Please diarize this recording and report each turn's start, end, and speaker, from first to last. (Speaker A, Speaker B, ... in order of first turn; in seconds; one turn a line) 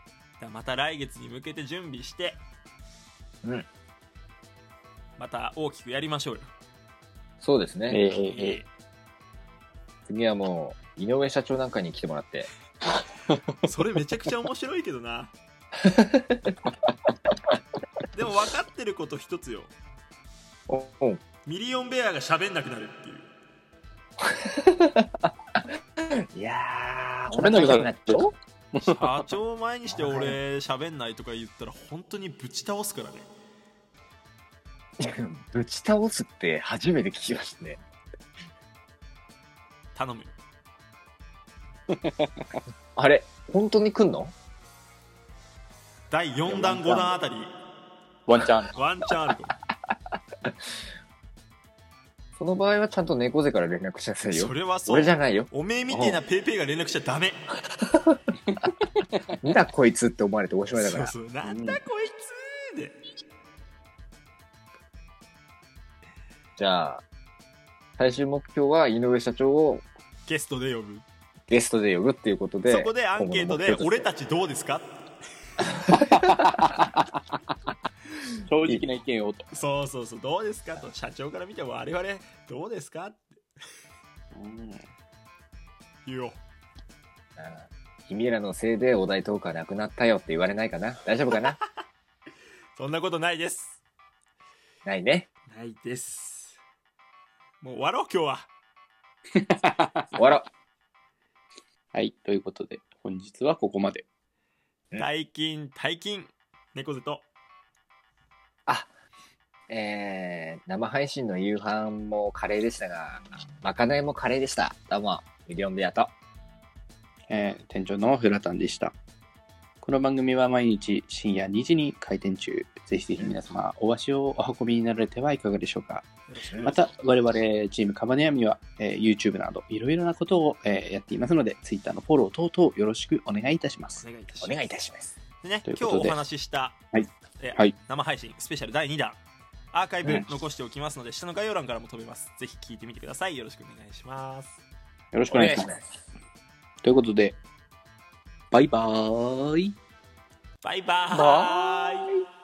Speaker A: 0.4-2.4
Speaker A: 5.2-6.5
Speaker B: 7.4-8.0
Speaker C: 7.9-8.6
Speaker A: 8.3-8.7
Speaker B: 10.1-12.5
Speaker C: 13.3-13.7
Speaker A: 13.6-15.3
Speaker B: 15.8-16.6
Speaker A: 18.1-19.7
Speaker B: 20.7-21.2
Speaker A: 21.4-23.3
Speaker B: 24.2-25.3
Speaker B: 26.3-28.3
Speaker C: 27.3-29.1
Speaker A: 28.8-33.3
Speaker B: 29.9-30.4
Speaker B: 35.0-37.8
Speaker A: 39.9-40.4
Speaker C: 41.9-42.6
Speaker B: 43.0-44.3
Speaker A: 46.1-47.5
Speaker C: 46.5-47.1
Speaker C: 48.3-48.7
Speaker A: 48.8-49.5
Speaker B: 52.4-56.2
Speaker A: 54.3-57.4
Speaker B: 57.8-58.2
Speaker B: 59.4-61.8
Speaker A: 60.7-63.0
Speaker B: 66.6-67.0
Speaker B: 68.0-69.9
Speaker A: 70.2-71.0
Speaker B: 71.5-74.1
Speaker A: 72.7-75.0
Speaker B: 75.8-76.5
Speaker C: 75.9-77.1
Speaker C: 78.5-79.5
Speaker A: 79.5-83.3
Speaker C: 84.3-84.8
Speaker A: 86.1-86.4
Speaker B: 87.4-91.6
Speaker A: 91.3-91.7
Speaker A: 92.8-93.8
Speaker B: 94.8-95.3
Speaker A: 95.5-96.6
Speaker A: 97.6-98.5
Speaker C: 99.4-100.2
Speaker B: 100.2-100.4
Speaker C: 101.9-104.0
Speaker A: 105.0-107.2
Speaker B: 109.7-116.1
Speaker C: 117.3-118.9
Speaker C: 119.8-126.1
Speaker A: 126.3-126.9
Speaker B: 126.5-126.7
Speaker C: 126.7-134.0
Speaker A: 133.9-134.7
Speaker B: 134.4-135.1
Speaker A: 135.4-136.8
Speaker C: 135.7-136.2
Speaker C: 136.9-137.7
Speaker A: 137.4-139.2
Speaker A: 139.7-144.6
Speaker C: 145.1-145.7
Speaker B: 145.3-145.8
Speaker C: 146.8-147.3
Speaker C: 148.5-149.8
Speaker A: 150.6-152.1
Speaker B: 151.2-152.1